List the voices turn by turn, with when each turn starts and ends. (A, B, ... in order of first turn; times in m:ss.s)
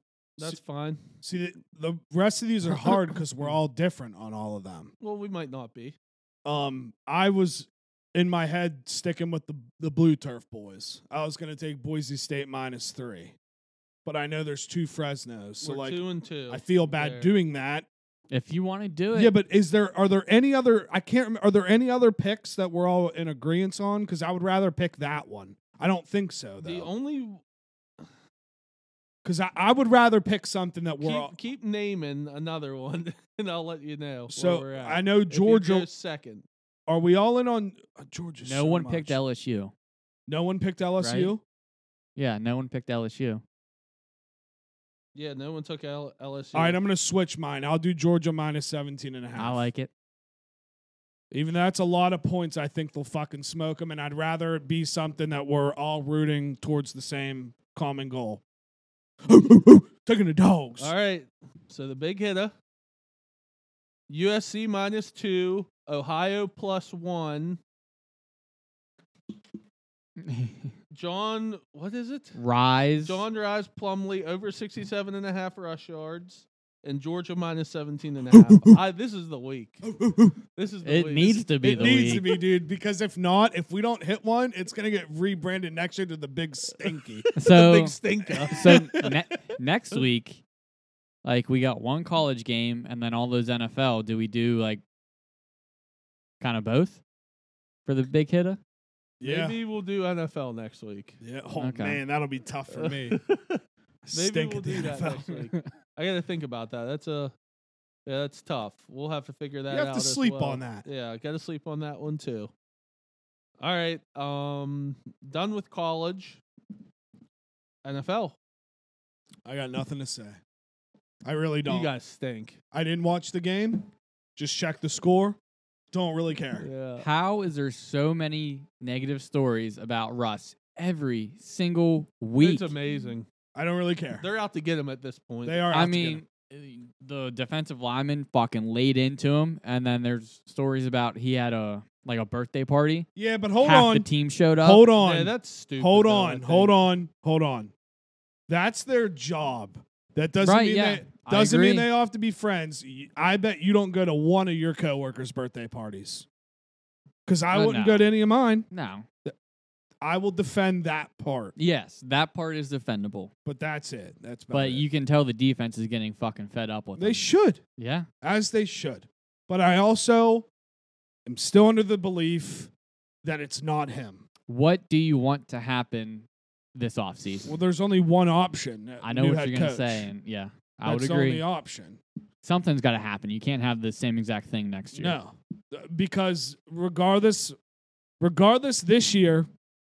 0:00.4-0:01.1 A
0:01.2-0:04.9 B
0:05.0-0:06.0 A
0:06.4-0:13.4 B
0:14.0-0:17.9 B
0:15.6-0:17.3 A
0:18.3-0:19.3 C
0:19.1-0:26.9 B
0:26.6-0:27.4 A
0:29.2-0:31.3 B
0:31.0-0:36.4 A
0:34.3-0:35.9 B
0:36.9-0:39.2 B
0:38.4-0:39.7 C
0:40.3-0:41.4 B
0:41.0-0:41.3 C
0:42.2-0:43.4 C
0:45.1-0:46.8 A
0:46.5-0:49.7 B
0:49.4-0:49.9 C
0:51.3-0:58.4 B
0:59.2-1:00.9 B
1:00.8-1:02.5 A
1:04.1-1:07.6 A
1:10.2-1:10.7 C
1:10.9-1:12.4 A
1:12.3-1:13.2 C
1:13.0-1:19.8 A
1:18.3-1:18.8 B
1:19.8-1:20.4 B
1:20.5-1:21.5 A
1:20.8-1:22.2 C
1:21.6-1:27.2 B
1:27.3-1:28.6 A
1:27.4-1:28.0 C
1:28.3-1:29.2 B
1:28.5-1:30.4 C
1:31.2-1:34.8 C
1:36.4-1:37.0 C
1:37.8-1:38.6 C
1:39.2-1:39.6 B
1:39.2-1:41.2 A
1:41.2-1:43.2 B
1:41.6-1:42.0 C
1:42.7-1:47.3 A
1:44.0-1:45.5 B
1:48.0-1:52.5 A
1:49.7-1:50.8 B
1:53.6-1:56.4 A
1:57.8-1:58.4 A
1:59.4-2:00.4 B
2:01.2-2:01.9 B
2:01.6-2:02.6 A
2:02.7-2:05.4 B
2:05.9-2:06.7 B
2:06.6-2:07.0 A
2:07.0-2:12.7 C
2:12.4-2:13.3 A
2:13.5-2:14.2 B
2:14.2-2:15.7 A
2:15.4-2:16.2 B
2:15.7-2:23.1 C
2:23.2-2:24.1 B
2:23.6-2:24.8 C
2:24.6-2:27.7 B
2:25.0-2:26.8 A
2:28.5-2:36.2 B
2:30.4-2:31.9 C
2:37.3-2:38.7 B
2:37.5-2:38.1 C
2:38.7-2:39.0 C
2:40.0-2:41.5 B
2:41.6-2:43.3 C
2:43.4-2:44.8 B
2:44.5-2:47.2 C
2:47.0-2:47.6 B
2:47.8-2:48.1 C
2:48.2-2:50.5 B
2:51.2-2:52.7 B
2:53.2-2:54.2 B
2:54.5-2:57.5 C
2:57.4-3:00.1 B
2:59.0-3:01.4 C
3:00.8-3:02.0 B
3:02.4-3:05.2 C
3:04.9-3:07.6 B
3:08.2-3:09.5 B